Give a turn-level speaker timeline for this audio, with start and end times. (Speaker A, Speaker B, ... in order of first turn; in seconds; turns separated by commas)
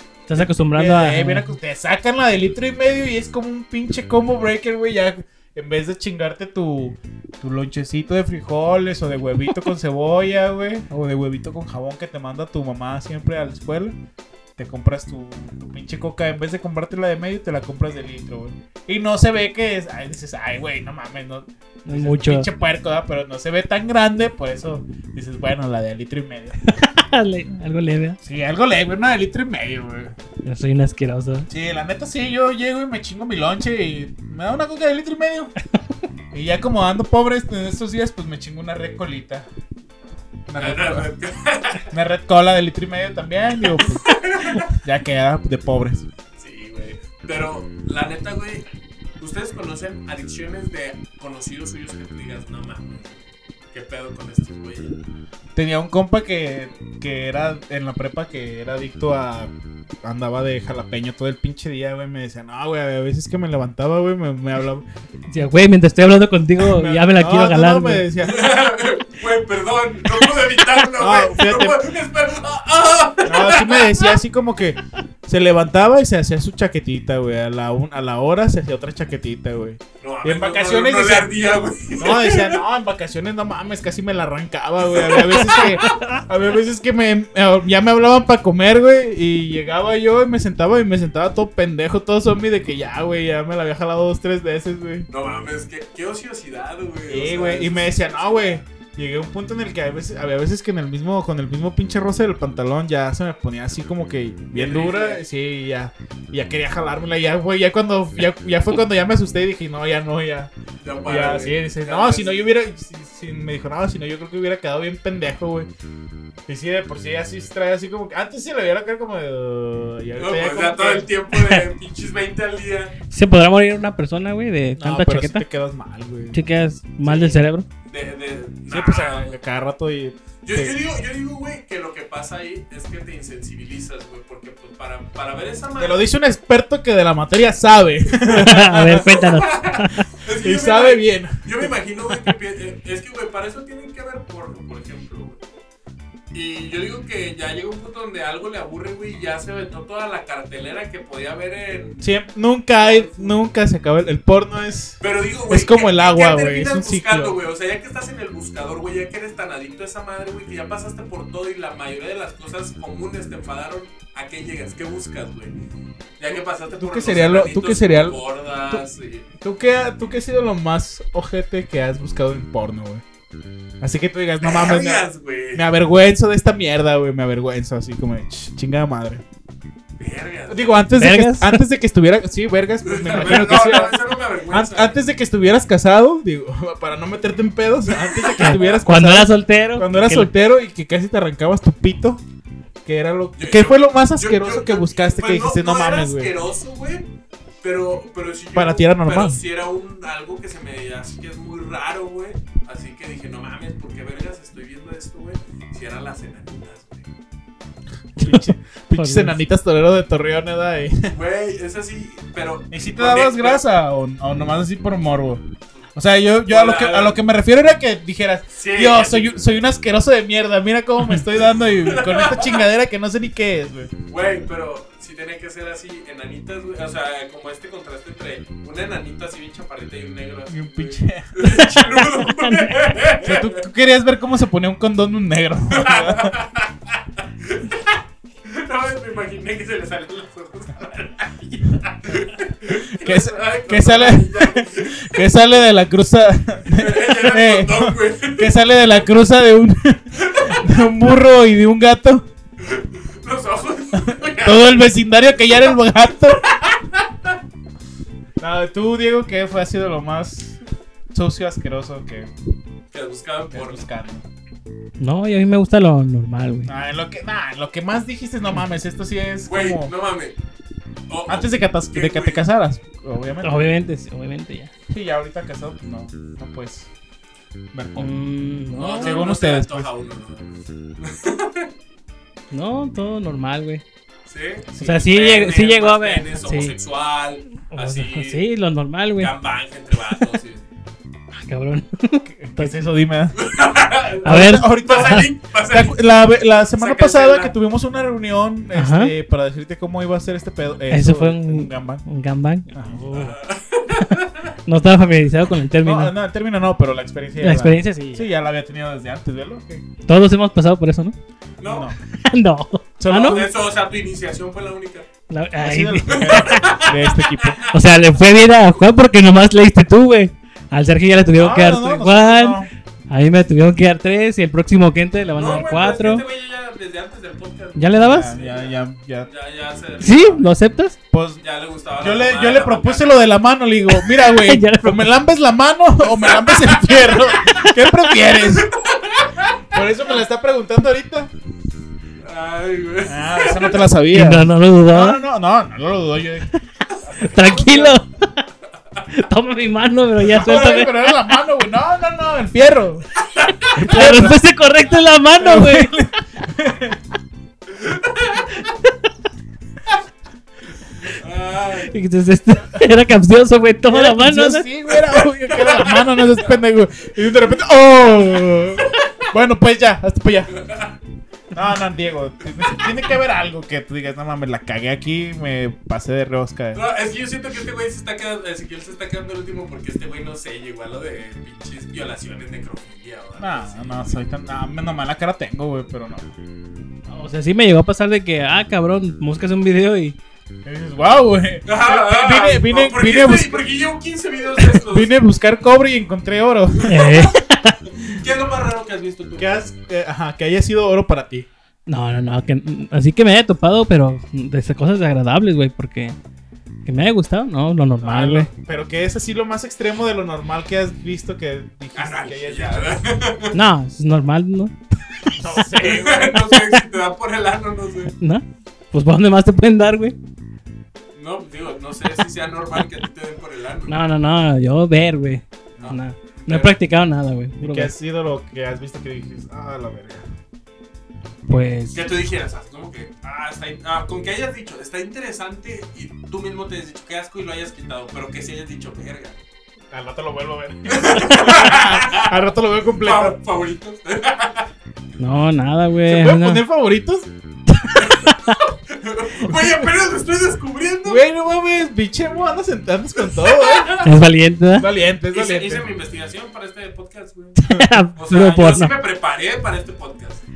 Speaker A: 0.3-1.6, Speaker B: 0.3-13.9, Speaker B: 14.6-26.6, Speaker A: 21.8-22.5, Speaker A: 26.7-28.2, Speaker B: 28.2-30.2, Speaker A: 30.4-31.5, Speaker B: 31.5-35.5, Speaker B: 36.3-39.5, Speaker B: 40.5-41.1, Speaker C: 40.6-41.9, Speaker B: 41.9-46.1, Speaker C: 44.0-44.7, Speaker C: 46.4-48.6, Speaker C: 49.2-55.0, Speaker B: 55.5-59.5, Speaker B: 60.0-64.8, Speaker A: 65.3-68.0, Speaker B: 66.6-68.4, Speaker C: 68.2-74.1, Speaker B: 71.0-71.8, Speaker B: 73.2-81.3, Speaker C: 80.0-82.6, Speaker B: 82.0-95.1, Speaker C: 85.0-86.0, Speaker A: 85.5-86.2, Speaker C: 95.1-98.6, Speaker B: 97.1-110.5, Speaker C: 104.5-105.2, Speaker C: 110.8-112.5, Speaker B: 111.0-115.7, Speaker B: 116.5-121.1, Speaker C: 120.2-123.0, Speaker A: 121.3-121.6, Speaker A: 123.1-125.4, Speaker B: 124.8-126.4, Speaker A: 126.3-127.7, Speaker B: 127.0-127.3, Speaker C: 127.9-129.4, Speaker B: 128.7-130.8, Speaker C: 130.4-136.1, Speaker B: 135.8-139.1, Speaker A: 138.3-140.1, Speaker C: 138.8-145.4, Speaker B: 140.4-141.7, Speaker C: 146.3-152.0, Speaker B: 152.0-157.3, Speaker C: 152.8-153.3, Speaker C: 155.0-165.5, Speaker C: 166.2-169.2, Speaker B: 166.3-168.8, Speaker B: 169.4-173.0, Speaker B: 173.8-179.2, Speaker C: 174.4-175.6, Speaker C: 180.0-180.8, Speaker B: 180.5-184.0, Speaker A: 181.0-181.6, Speaker C: 182.8-185.0, Speaker B: 184.5-192.2, Speaker C: 187.9-188.8, Speaker A: 188.4-190.3, Speaker B: 192.8-196.3, Speaker C: 193.4-197.0, Speaker C: 197.6-207.1, Speaker B: 198.5-199.4, Speaker B: 208.2-211.1, Speaker A: 208.2-209.4, Speaker C: 211.1-213.6, Speaker B: 212.7-215.4, Speaker B: 215.9-223.9, Speaker C: 216.5-217.2, Speaker C: 218.5-219.4, Speaker C: 221.7-222.6, Speaker C: 224.1-233.6, Speaker B: 230.5-231.4, Speaker A: 231.4-232.9, Speaker B: 233.2-236.3, Speaker C: 235.7-245.2, Speaker B: 242.8-252.2, Speaker C: 246.7-248.6, Speaker C: 250.1-250.8, Speaker C: 252.6-254.9, Speaker B: 254.0-256.5, Speaker C: 256.4-257.3, Speaker B: 258.4-260.6, Speaker B: 261.1-262.3, Speaker C: 262.9-263.9, Speaker B: 263.5-264.2, Speaker A: 265.0-266.7, Speaker B: 266.6-269.9, Speaker C: 269.5-270.4, Speaker C: 271.1-272.4, Speaker B: 271.3-273.7, Speaker A: 273.4-274.7, Speaker B: 274.9-276.9, Speaker B: 277.7-278.1, Speaker A: 277.9-279.2, Speaker C: 278.8-281.7, Speaker B: 279.0-279.9, Speaker A: 282.5-283.8, Speaker C: 284.3-288.4, Speaker B: 284.7-285.1, Speaker A: 284.8-286.8, Speaker A: 287.7-289.3, Speaker C: 289.2-290.6, Speaker A: 291.3-292.8, Speaker B: 292.2-293.4, Speaker C: 293.4-296.0, Speaker A: 294.2-295.3, Speaker B: 294.2-302.0, Speaker C: 296.8-297.5, Speaker A: 298.7-299.1, Speaker A: 300.9-303.4, Speaker B: 302.7-303.1, Speaker C: 303.0-304.5, Speaker A: 304.0-306.1, Speaker B: 305.8-309.8, Speaker A: 307.4-308.3, Speaker A: 310.1-311.1, Speaker C: 311.6-311.9, Speaker B: 311.6-312.0, Speaker A: 312.2-313.4, Speaker B: 313.0-313.5, Speaker C: 313.1-315.1, Speaker A: 315.3-316.7, Speaker B: 315.6-317.6, Speaker C: 316.1-317.7, Speaker A: 317.7-326.2, Speaker B: 321.4-322.7, Speaker C: 325.3-330.5, Speaker A: 327.8-328.4, Speaker B: 328.0-329.3, Speaker A: 330.0-330.9, Speaker B: 331.1-331.4, Speaker C: 331.4-333.2, Speaker B: 332.0-338.7, Speaker A: 334.1-335.1, Speaker C: 336.1-337.6, Speaker C: 338.5-339.8, Speaker B: 339.7-341.3, Speaker C: 342.2-343.9, Speaker B: 343.1-348.0, Speaker A: 344.1-345.2, Speaker A: 347.2-348.4, Speaker A: 349.1-351.4, Speaker B: 350.3-353.1, Speaker C: 350.5-350.7, Speaker C: 353.3-353.8, Speaker A: 353.7-356.1, Speaker B: 353.7-354.4, Speaker B: 355.4-357.0, Speaker C: 357.7-358.6, Speaker C: 361.0-361.9, Speaker A: 361.8-364.7, Speaker B: 363.9-370.6, Speaker C: 364.9-366.5, Speaker C: 370.6-370.9, Speaker B: 371.5-376.8, Speaker C: 376.7-384.2, Speaker B: 383.4-386.3, Speaker A: 387.1-390.2, Speaker B: 390.6-393.6, Speaker C: 391.6-395.1, Speaker B: 394.6-397.1, Speaker C: 396.8-397.4, Speaker A: 396.9-397.8, Speaker C: 398.0-399.6, Speaker B: 399.4-401.5, Speaker A: 401.9-406.1, Speaker A: 406.8-408.5, Speaker B: 408.0-413.0, Speaker C: 411.9-413.6, Speaker A: 413.5-414.7, Speaker B: 415.3-416.4, Speaker C: 415.8-418.1, Speaker A: 418.2-420.1, Speaker C: 421.1-423.9, Speaker A: 423.9-427.9, Speaker B: 425.8-426.7, Speaker B: 427.6-430.3, Speaker A: 431.5-432.1, Speaker C: 431.9-439.4, Speaker B: 439.9-443.4, Speaker C: 440.9-442.4, Speaker C: 443.0-444.7, Speaker A: 445.2-446.6, Speaker B: 446.1-447.3, Speaker A: 447.7-448.6, Speaker C: 447.9-451.2, Speaker B: 449.5-449.7, Speaker B: 451.1-454.1, Speaker C: 453.2-454.1, Speaker A: 454.0-454.9, Speaker B: 454.7-455.9, Speaker C: 455.3-457.6, Speaker A: 457.6-458.9, Speaker C: 458.1-460.4